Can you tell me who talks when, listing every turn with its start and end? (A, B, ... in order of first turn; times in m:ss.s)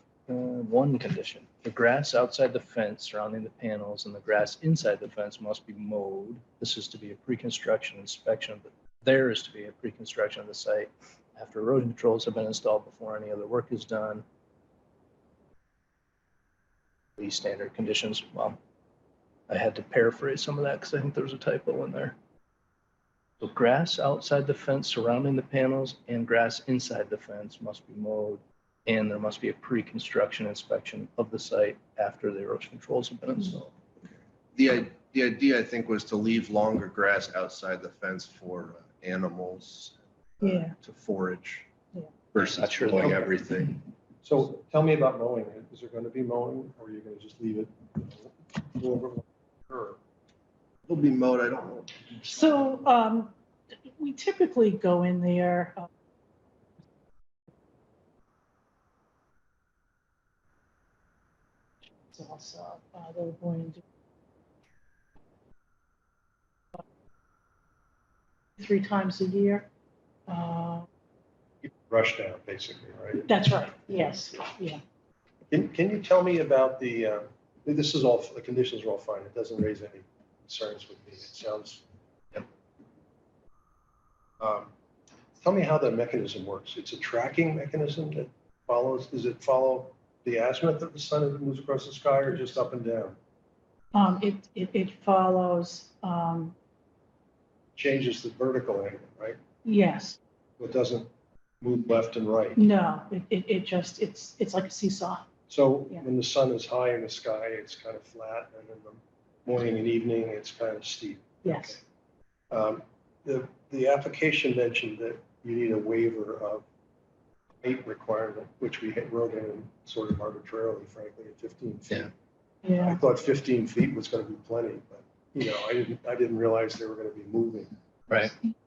0:00.3-0:14.2 A
0:17.2-0:18.6 A
0:19.5-0:22.1 A
0:23.4-0:33.7 A
0:34.5-0:41.7 B
0:40.4-0:40.7 C
0:42.3-0:43.8 B
0:42.6-0:43.2 A
0:43.0-0:43.4 D
0:44.2-0:50.0 D
0:50.9-0:52.0 B
0:52.3-0:53.3 C
0:54.0-0:55.8 C
1:02.1-1:03.8 C
1:08.6-1:09.7 C
1:10.3-1:10.8 C
1:11.6-1:13.2 D
1:13.2-1:14.8 C
1:15.5-1:21.8 D
1:24.4-1:24.7 D
1:25.4-1:33.2 D
1:33.9-1:36.5 C
1:37.8-1:39.4 D
1:39.6-1:40.2 C
1:40.6-1:41.1 D
1:41.6-1:42.6 D
1:42.6-1:45.3 C
1:45.5-1:51.8 D
1:51.4-1:51.8 C
1:52.5-1:56.6 D
1:57.6-2:02.1 D
2:02.6-2:03.0 C
2:02.8-2:07.7 D
2:08.1-2:08.3 A